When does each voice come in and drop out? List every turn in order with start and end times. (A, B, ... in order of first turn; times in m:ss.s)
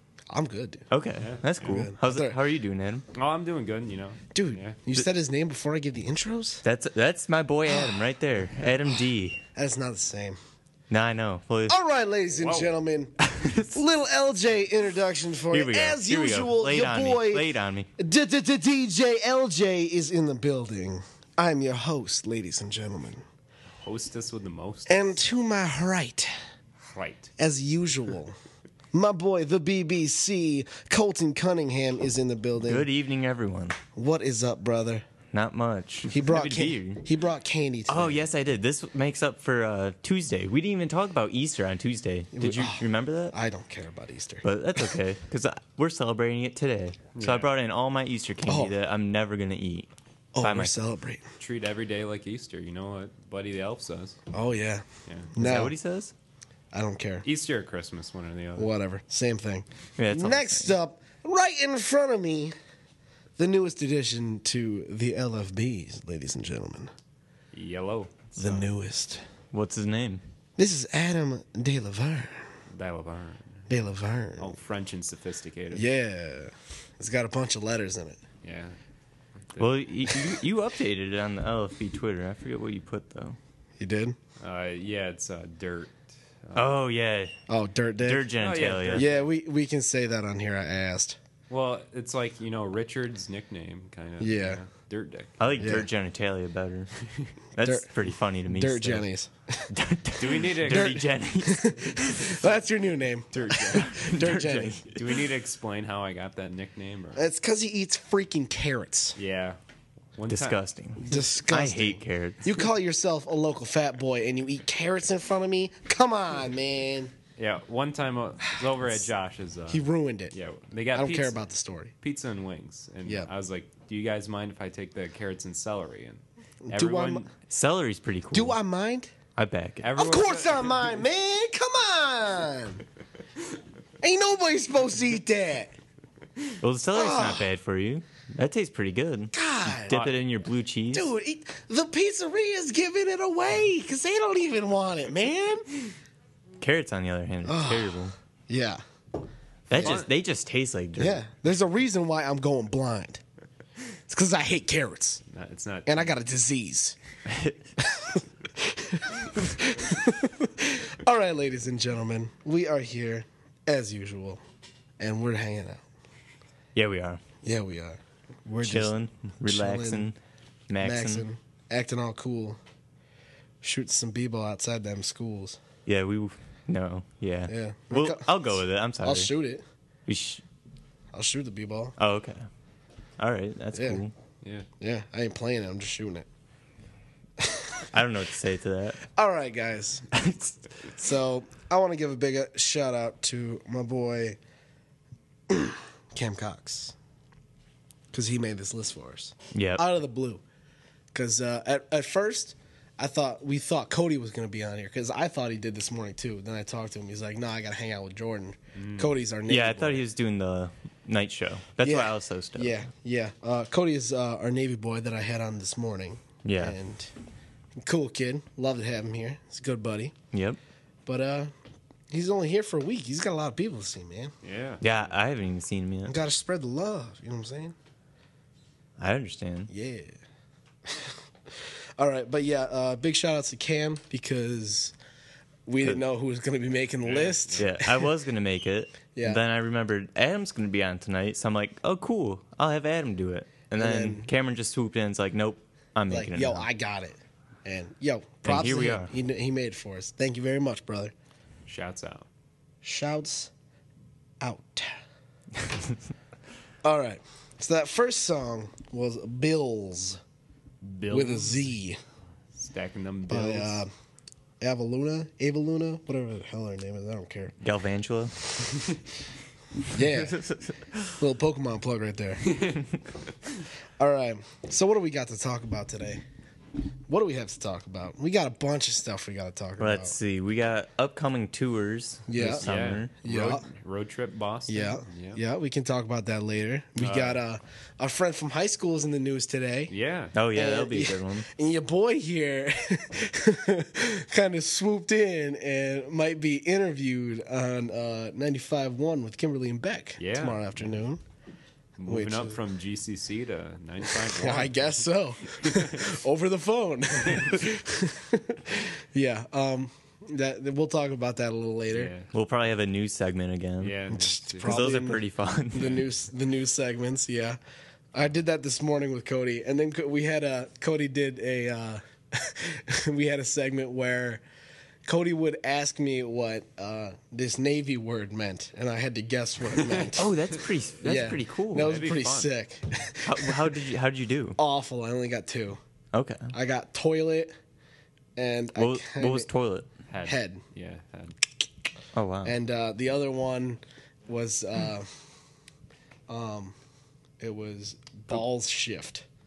0:00.3-0:00.9 A
0:00.9-0:03.1 B
0:01.2-0:01.8 C
0:01.6-0:02.4 A
0:03.1-0:04.8 C
0:04.3-0:06.6 A
0:06.6-0:09.4 B
0:09.6-0:10.4 A
0:10.9-0:11.8 B
0:11.7-0:23.2 A
0:12.4-0:12.7 C
0:13.2-0:13.8 B
0:15.5-0:17.9 B
0:23.7-0:25.2 C
0:24.9-0:26.3 A
0:26.8-0:27.3 C
0:27.4-0:28.4 A
0:28.9-0:32.9 A
0:32.6-0:33.8 B
0:33.9-0:35.0 A
0:35.3-0:37.0 B
0:36.1-0:38.2 A
0:37.9-0:43.3 B
0:42.3-0:44.8 A
0:44.4-0:49.9 B
0:47.2-0:47.5 C
0:48.5-0:48.7 A
0:50.3-0:51.2 A
0:50.4-0:50.8 B
0:51.4-0:54.2 C
0:54.3-0:55.7 A
0:55.1-0:55.3 C
0:55.4-0:56.1 B
0:56.7-0:57.3 A
0:57.2-0:58.7 C
0:58.6-1:02.5 A
1:00.0-1:00.8 B
1:03.4-1:06.9 A
1:07.5-1:08.7 C
1:08.4-1:09.3 A
1:09.5-1:10.2 B
1:10.6-1:12.5 A
1:12.7-1:13.7 C
1:13.7-1:14.5 A
1:14.4-1:15.8 C
1:15.7-1:18.2 A
1:18.4-1:18.8 C
1:19.6-1:23.4 B
1:23.8-1:24.2 A
1:24.4-1:26.8 C
1:26.6-1:27.4 B
1:27.5-1:28.3 A
1:28.0-1:29.1 B
1:28.4-1:29.2 C
1:28.9-1:31.2 A
1:31.5-1:35.5 C
1:34.2-1:34.6 A
1:35.4-1:36.9 B
1:35.6-1:35.9 A
1:37.6-1:39.1 B
1:37.6-1:39.7 A
1:39.7-1:42.4 B
1:40.2-1:41.0 C
1:40.7-1:44.8 A
1:43.3-1:43.9 C
1:43.7-1:45.2 B
1:44.9-1:47.2 C
1:47.2-1:49.2 A
1:49.2-1:49.6 C
1:50.2-1:50.6 C
1:50.3-1:52.4 B
1:51.0-1:57.1 A
1:57.4-2:01.4 C
1:59.7-2:00.3 A
2:00.9-2:01.9 A
2:02.0-2:07.3 C
2:03.0-2:03.3 A
2:06.6-2:07.3 A
2:07.5-2:08.6 B
2:08.3-2:09.1 A
2:09.4-2:09.9 B
2:09.8-2:11.0 C
2:10.0-2:12.8 A
2:14.0-2:15.7 A
2:16.6-2:21.1 B
2:16.9-2:17.5 A
2:19.3-2:20.0 A
2:19.9-2:20.2 C
2:20.9-2:25.8 A
2:26.6-2:28.2 B
2:27.4-2:28.8 A
2:29.7-2:31.2 B
2:29.7-2:30.0 A
2:29.8-2:30.1 C
2:31.0-2:33.2 A
2:34.1-2:35.2 A
2:35.3-2:36.1 C
2:35.9-2:37.0 A
2:37.3-2:37.6 B
2:37.8-2:44.4 A
2:45.0-2:45.8 A
2:46.8-2:47.2 B
2:47.4-2:50.1 A
2:48.6-2:50.2 B
2:50.7-2:51.2 B
2:50.8-2:52.6 A
2:53.6-2:55.6 A
2:55.9-2:59.3 B
2:57.5-2:59.6 A
3:00.1-3:00.4 B
3:01.1-3:02.0 A
3:02.0-3:02.5 B
3:03.2-3:04.1 B
3:03.7-3:04.0 A
3:04.4-3:04.7 C
3:04.8-3:06.3 A
3:07.4-3:07.9 A
3:07.9-3:09.0 B
3:09.0-3:10.2 A
3:10.1-3:10.9 B
3:10.9-3:14.4 A
3:15.5-3:17.0 A
3:18.1-3:20.4 A
3:19.5-3:19.9 B
3:21.1-3:30.0 A
3:28.8-3:29.1 C
3:29.5-3:32.8 B
3:31.8-3:37.1 A
3:36.4-3:36.8 B
3:37.8-3:40.2 A
3:40.3-3:40.6 B
3:41.1-3:41.5 A
3:42.1-3:44.4 A
3:44.4-3:45.0 C
3:44.8-3:46.2 B
3:46.1-3:47.8 A
3:49.0-3:49.7 B
3:49.7-3:50.2 A
3:50.9-3:55.0 A
3:55.7-3:58.1 A
3:57.0-3:57.7 C
3:57.6-4:06.7 B
3:59.1-3:59.4 A
4:03.8-4:04.3 A
4:06.1-4:11.1 A
4:08.4-4:09.1 B
4:11.7-4:12.3 C
4:12.8-4:13.5 A
4:14.4-4:15.0 A
4:15.6-4:16.1 B
4:16.8-4:20.2 A
4:20.8-4:21.7 C
4:21.1-4:22.0 A
4:22.5-4:23.8 C
4:23.3-4:23.9 A
4:24.6-4:27.6 A
4:27.6-4:28.4 B
4:29.9-4:30.5 A
4:30.0-4:31.2 B
4:31.2-4:32.6 A
4:32.4-4:32.8 C
4:34.0-4:36.2 A
4:37.1-4:40.2 A
4:39.8-4:43.6 B
4:42.3-4:42.7 A
4:42.4-4:45.4 C
4:43.2-4:43.6 A
4:44.7-4:49.9 A
4:47.0-4:47.4 C
4:49.9-4:50.4 C
4:50.4-4:51.5 B
4:50.5-5:01.2 A
5:00.2-5:00.7 C
5:02.0-5:06.2 C
5:02.1-5:02.6 A
5:04.1-5:12.1 A
5:07.3-5:07.6 C
5:11.9-5:12.3 C
5:12.3-5:14.1 B
5:13.8-5:14.9 C
5:14.1-5:17.6 A
5:14.6-5:16.0 B
5:18.1-5:24.4 A
5:25.1-5:30.4 A
5:29.8-5:30.1 C
5:30.2-5:32.0 B
5:31.0-5:33.8 A
5:31.8-5:32.5 C
5:33.2-5:34.6 B
5:34.6-5:35.8 A
5:36.1-5:36.5 B
5:36.5-5:37.5 A
5:38.4-5:39.5 A
5:38.8-5:39.9 B
5:40.1-5:41.4 C
5:40.2-5:40.6 A
5:42.2-5:42.6 B
5:42.4-5:45.1 A
5:46.3-5:46.7 A
5:47.4-5:49.2 A